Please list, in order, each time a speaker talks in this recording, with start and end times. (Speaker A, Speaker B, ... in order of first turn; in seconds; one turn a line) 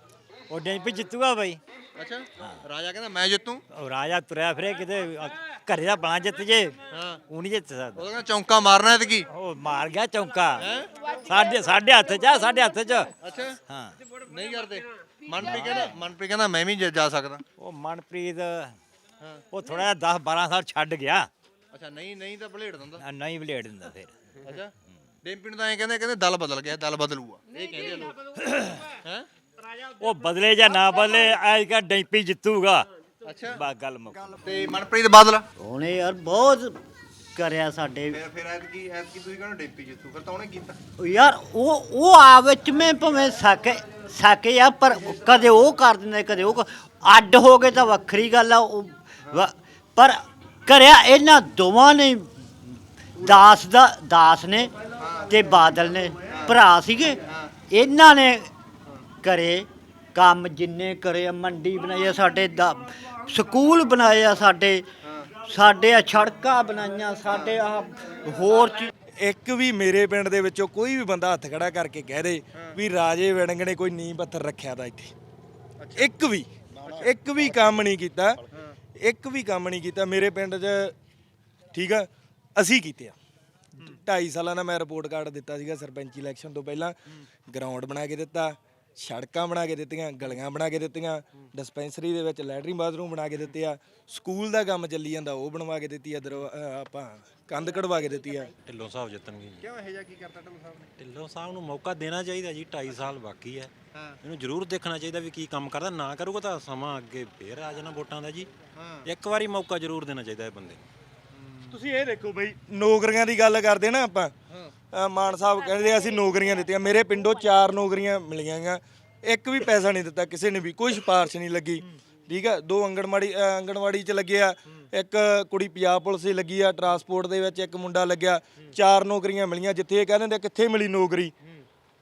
Speaker A: 0.5-1.6
Speaker B: 2.0-3.6
Speaker A: 3.7-6.8
Speaker B: 6.9-7.2
Speaker A: 7.3-8.0
Speaker B: 7.9-9.3
Speaker A: 9.3-10.6
Speaker B: 10.6-10.9
Speaker A: 11.2-13.1
Speaker B: 13.2-13.6
Speaker A: 13.7-14.0
Speaker B: 14.2-17.4
Speaker A: 15.5-15.9
Speaker A: 17.6-18.8
Speaker A: 19.5-21.3
Speaker B: 21.7-23.0
Speaker A: 23.0-24.1
Speaker B: 24.4-24.7
Speaker B: 25.2-28.1
Speaker A: 28.4-28.8
Speaker A: 30.0-32.9
Speaker B: 33.2-33.5
Speaker A: 33.5-34.4
Speaker B: 34.4-35.4
Speaker C: 35.6-36.7
Speaker C: 37.4-38.2
Speaker B: 38.1-40.8
Speaker C: 41.0-52.3
Speaker C: 53.2-58.5
Speaker B: 56.3-56.5
Speaker C: 59.2-64.8
Speaker C: 65.4-68.9
Speaker D: 69.2-75.1
Speaker B: 75.8-76.1
Speaker D: 76.0-76.5
Speaker B: 76.8-77.1
Speaker D: 77.0-78.4
Speaker D: 79.0-80.9
Speaker D: 81.7-83.1
Speaker D: 83.8-98.5
Speaker E: 98.7-99.6
Speaker B: 99.6-100.9
Speaker E: 101.0-103.7
Speaker E: 104.2-108.5
Speaker B: 108.8-109.1
Speaker E: 109.1-110.8
Speaker D: 111.7-114.3
Speaker D: 114.9-131.3